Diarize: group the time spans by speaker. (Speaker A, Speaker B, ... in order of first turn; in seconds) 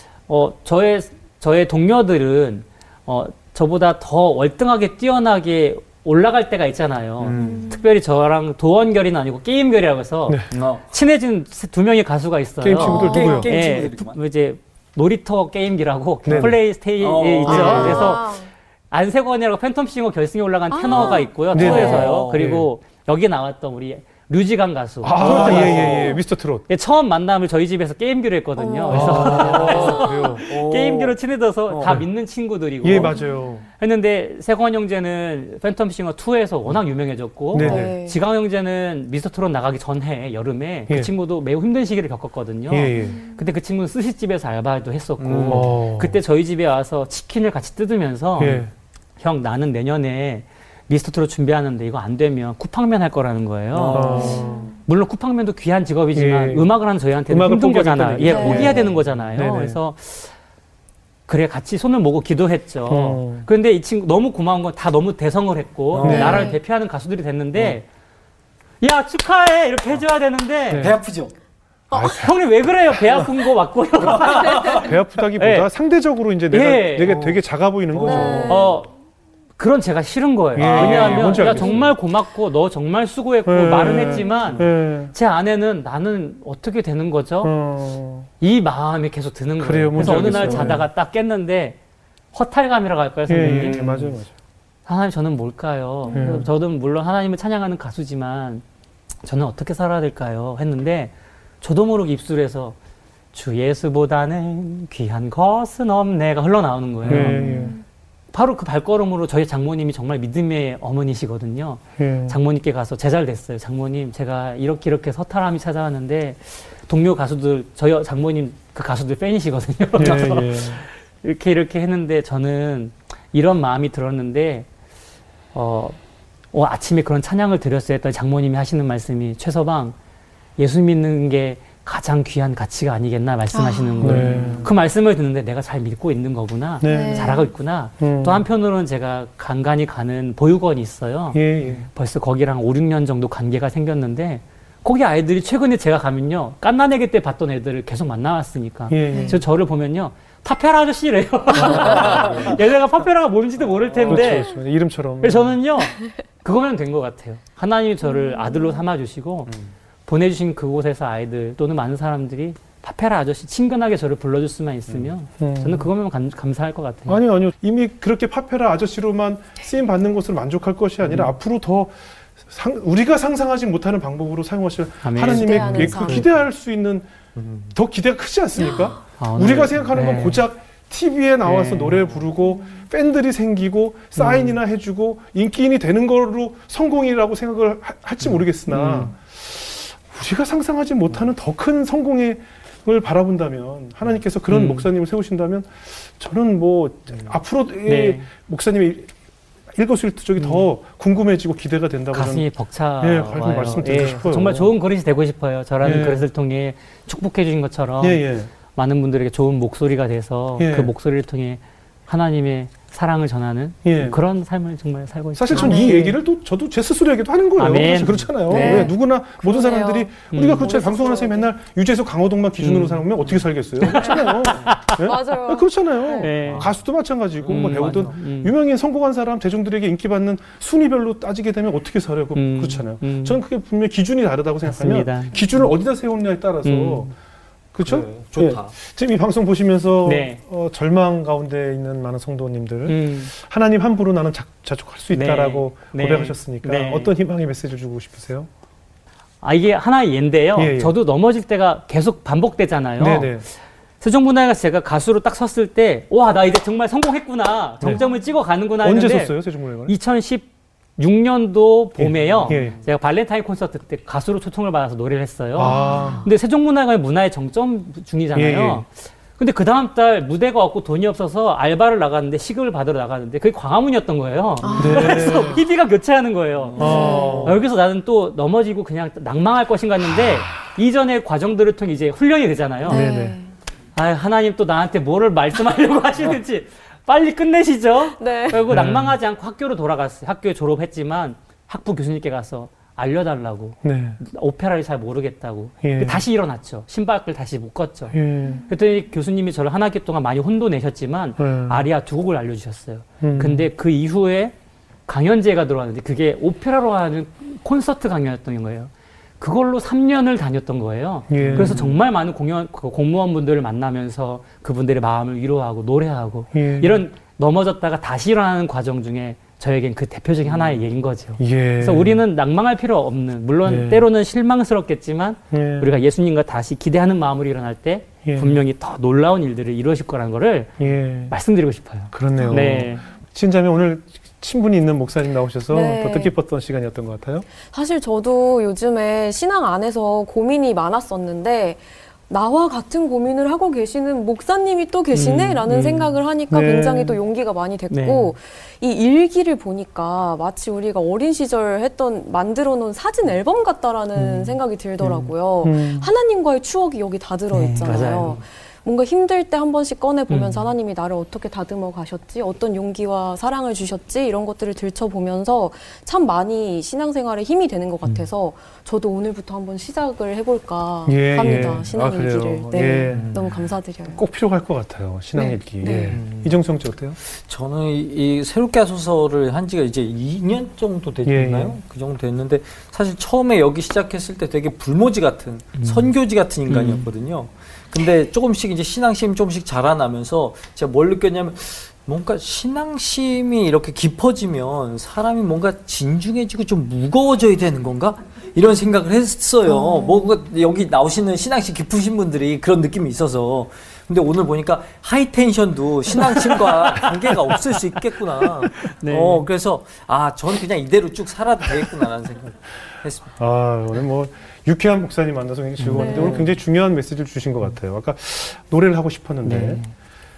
Speaker A: 0.3-33.2, 33.8-48.7, 49.2-60.3, 61.3-67.8, 68.8-70.9, 72.0-75.7, 76.5-77.2, 78.5-78.9, 79.6-87.5, 88.4-91.8, 92.3-94.1, 94.8-98.6, 99.2-102.8, 103.3-107.4, 108.3-124.7, 125.5-126.0, 126.5-129.9, 130.6-154.6, 155.2-159.5, 160.1-167.2, 175.0-176.2, 179.2-180.4, 181.4-182.1, 184.2-184.6, 188.7-189.1, 194.5-194.9, 197.9-198.3, 200.4-200.6, 202.1-216.1, 217.6-218.9, 220.3-220.7, 222.6-223.1, 223.8-225.0, 226.2-226.7, 227.4-228.5, 232.3-233.4, 234.6-235.6, 236.6-237.1, 240.0-240.4, 242.8-243.3, 245.1-247.1, 249.4-253.5, 254.0-283.1, 283.9-298.1, 298.7-304.5, 305.1-330.7, 331.3-333.0, 345.1-346.2, 347.9-348.3, 354.2-354.6, 357.5-358.4, 360.3-360.6, 385.8-386.1, 386.7-387.1, 408.9-409.5, 415.8-416.3, 419.4-419.9
Speaker B: 7.2-7.8, 10.5-10.8, 12.8-14.2, 16.3-18.2, 20.9-22.5, 25.2-26.2, 28.9-31.1, 31.7-32.0, 45.2-45.7, 53.7-54.7, 58.5-58.8, 65.9-66.5, 70.8-71.3, 74.1-74.9, 77.0-77.4, 77.9-78.7, 80.6-81.9, 90.0-90.8, 93.4-94.0, 107.1-107.3, 134.1-134.7, 151.6-152.6, 153.6-154.4, 177.3-177.7, 226.4-226.8, 227.4-228.1, 237.8-238.7, 262.3-262.8, 274.7-275.1, 276.6-277.6, 311.3-311.9, 320.5-320.8, 373.1-373.6, 376.1-376.6, 377.2-413.3, 416.1-416.5
Speaker C: 7.4-7.8, 12.8-13.5, 17.4-18.5, 20.7-22.1, 28.6-30.3, 33.1-33.4, 37.6-38.2, 43.0-43.4, 54.1-54.7, 58.2-58.8, 66.0-66.6, 71.9-72.2, 78.0-78.8, 83.9-84.3, 96.0-96.3, 107.2-107.8, 133.5-134.4, 136.8-137.5, 149.1-149.4, 158.1-158.8, 175.2-176.3, 215.5-216.2, 218.5-221.5, 223.9-224.3, 225.0-226.3, 265.6-266.3, 274.6-275.6, 276.8-277.5, 282.9-283.5, 288.2-288.6, 332.4-332.7, 335.7-336.3, 337.6-374.2, 375.4-376.2, 399.7-400.2, 415.9-416.5
Speaker D: 12.6-13.5, 16.2-16.6, 17.5-18.0, 21.5-22.7, 25.0-26.7, 28.9-30.4, 32.8-33.6, 37.5-38.0, 42.7-43.2, 45.5-46.2, 48.4-48.7, 53.9-54.7, 56.1-56.7, 57.3-59.8, 62.9-63.5, 66.0-66.5, 70.7-71.0, 71.9-72.3, 72.9-73.4, 74.6-78.6, 80.5-81.9, 83.5-85.1, 87.4-88.3, 89.6-90.9, 93.3-94.3, 96.1-96.5, 107.0-107.7, 112.0-112.4, 120.0-120.8, 134.0-134.7, 136.8-137.4, 138.0-138.4, 141.3-141.9, 148.9-149.4, 151.6-152.5, 154.0-155.6, 165.4-165.9, 167.1-199.1, 199.7-202.5, 203.0-204.7, 205.8-206.2, 208.0-208.5, 210.6-210.9, 213.8-214.2, 215.3-237.1, 237.7-248.5, 250.5-250.9, 253.0-253.5, 258.8-259.9, 262.0-262.8, 265.6-266.3, 268.3-268.8, 274.8-275.6, 276.8-277.6, 282.9-283.4, 288.7-289.2, 293.8-294.2, 295.8-296.2, 298.1-298.6, 301.4-301.9, 303.2-303.7, 311.3-311.9, 316.5-317.0, 321.4-322.2, 323.6-324.1, 325.5-325.9, 328.2-328.6, 330.8-331.3, 332.1-337.5, 346.5-347.2, 354.1-354.5, 355.0-356.1, 371.1-373.3, 374.1-377.2, 381.2-381.8, 413.4-419.8